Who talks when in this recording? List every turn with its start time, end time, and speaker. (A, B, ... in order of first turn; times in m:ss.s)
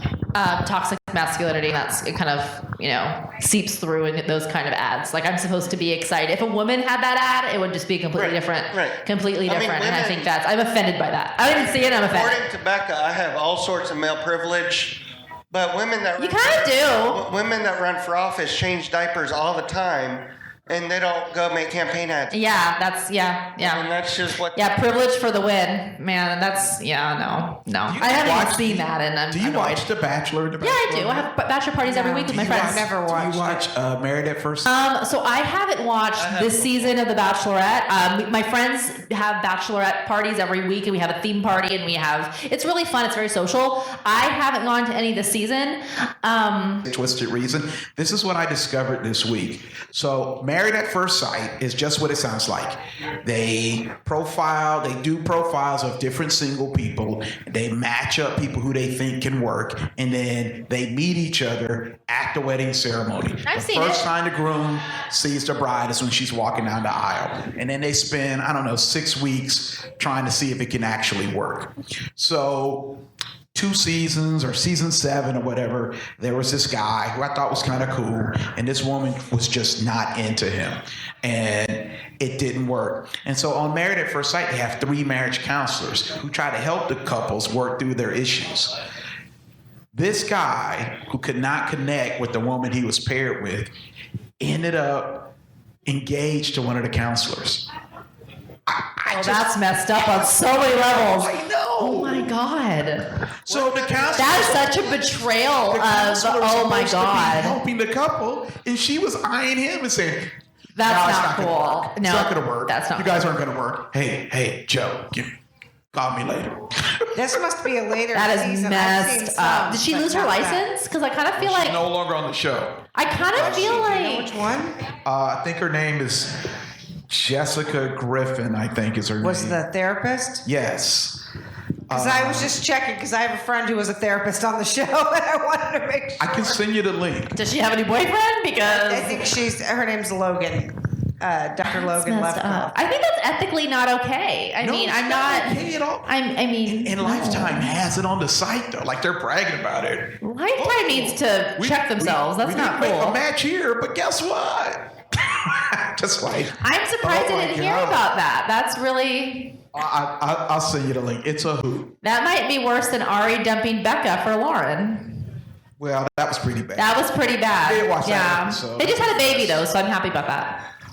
0:00.3-0:12.4 A
0:08.1-0:10.3 B
0:11.4-0:15.0 B
0:15.5-0:22.5 B
0:16.2-0:17.2 A
0:22.3-0:23.8 A
0:23.6-0:24.6 B
0:24.5-0:29.8 A
0:27.9-0:31.3 C
0:30.6-0:32.8 A
0:31.8-0:33.6 D
0:32.3-0:34.7 C
0:34.6-0:46.8 A
0:36.2-0:37.0 B
0:46.8-1:13.0 C
1:03.4-1:04.0 A
1:13.5-1:28.7 C
1:29.9-1:33.7 C
1:34.4-1:35.3 C
1:35.8-1:37.6 C
1:38.7-1:39.5 C
1:39.0-1:43.0 A
1:40.9-1:42.3 C
1:43.4-1:44.9 C
1:43.5-1:45.0 B
1:44.2-1:47.6 A
1:45.7-1:50.3 C
1:50.7-1:53.3 A
1:50.8-1:55.3 C
1:55.9-1:57.2 C
1:57.1-2:00.6 D
1:58.1-2:01.8 A
2:01.4-2:04.0 C
2:02.9-2:04.4 A
2:03.4-2:04.7 D
2:05.0-2:06.4 C
2:07.1-2:09.6 C
2:09.2-2:10.4 D
2:10.4-2:11.2 C
2:11.9-2:12.6 C
2:11.9-2:16.6 D
2:16.2-2:17.4 C
2:17.3-2:19.3 A
2:18.6-2:22.7 D
2:21.6-2:27.8 A
2:24.6-2:26.1 C
2:26.6-2:38.0 C
2:30.2-2:33.2 A
2:36.6-2:39.6 A
2:39.7-2:41.9 C
2:42.0-2:45.3 A
2:45.8-2:46.9 C
2:46.8-2:50.6 A
2:47.6-2:49.6 C